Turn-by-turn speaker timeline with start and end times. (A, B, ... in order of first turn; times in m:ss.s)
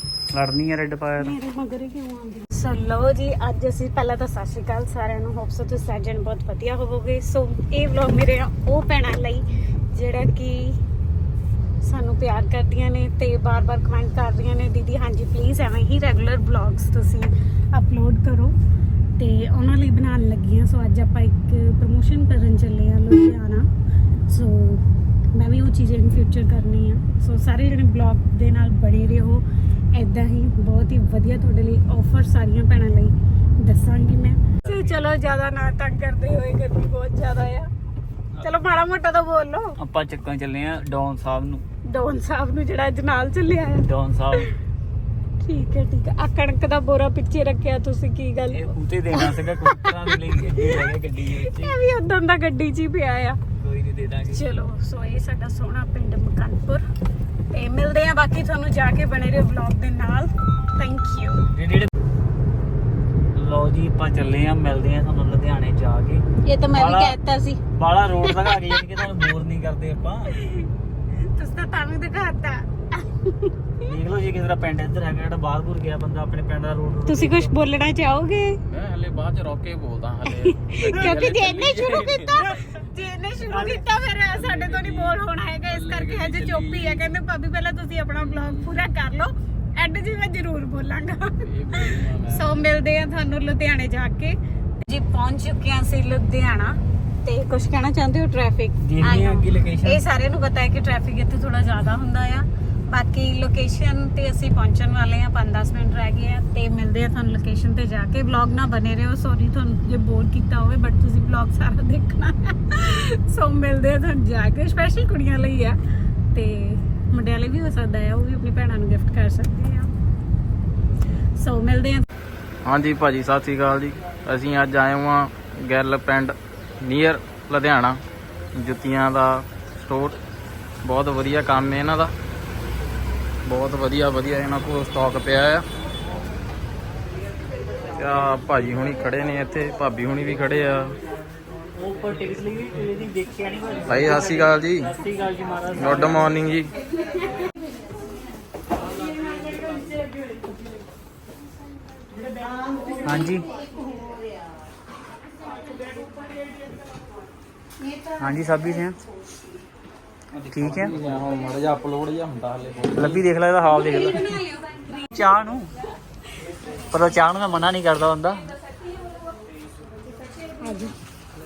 0:00.3-0:01.4 A
0:01.2-0:10.8 B
0:11.8-0:18.5 B
0:19.2-0:23.7 B
0:24.3-0:29.4 B
0:29.9-0:37.7 B
0:38.4-0:39.8 B
0:39.8-0:41.6 A
0:41.9-0:44.6 B
0:43.8-0:44.5 A
0:45.4-0:50.8 B
0:48.5-0:51.7 A
0:51.4-0:53.4 B
0:53.6-0:54.4 A
0:54.3-0:56.8 B
0:57.5-1:01.5 B
1:01.5-1:01.9 A
1:03.4-1:07.2 A
1:06.4-1:07.6 B
1:07.7-1:10.3 A
1:08.2-1:09.1 B
1:10.3-1:13.6 B
1:13.8-1:17.5 A
1:17.1-1:18.6 B
1:18.7-1:22.4 C
1:20.3-1:55.8 B
1:23.5-1:23.8 A
1:24.3-1:27.1 C
1:28.2-1:28.8 C
1:31.4-1:32.5 C
1:38.8-1:40.0 A
1:56.3-1:59.9 B
2:01.4-2:02.1 B
2:02.6-2:08.0 C
2:08.5-2:10.2 C
2:10.8-2:12.1 C
2:13.4-2:15.7 C
2:18.0-2:21.0 C
2:21.8-2:26.4 A
2:23.9-2:24.9 C
2:25.7-2:26.7 C
2:33.0-2:33.5 A
2:38.2-2:39.0 A
2:40.5-2:43.2 C
2:40.5-2:41.0 A
2:42.9-2:44.4 A
2:43.9-2:45.0 B
2:45.0-2:45.7 A
2:46.9-2:48.5 A
2:50.6-2:50.9 B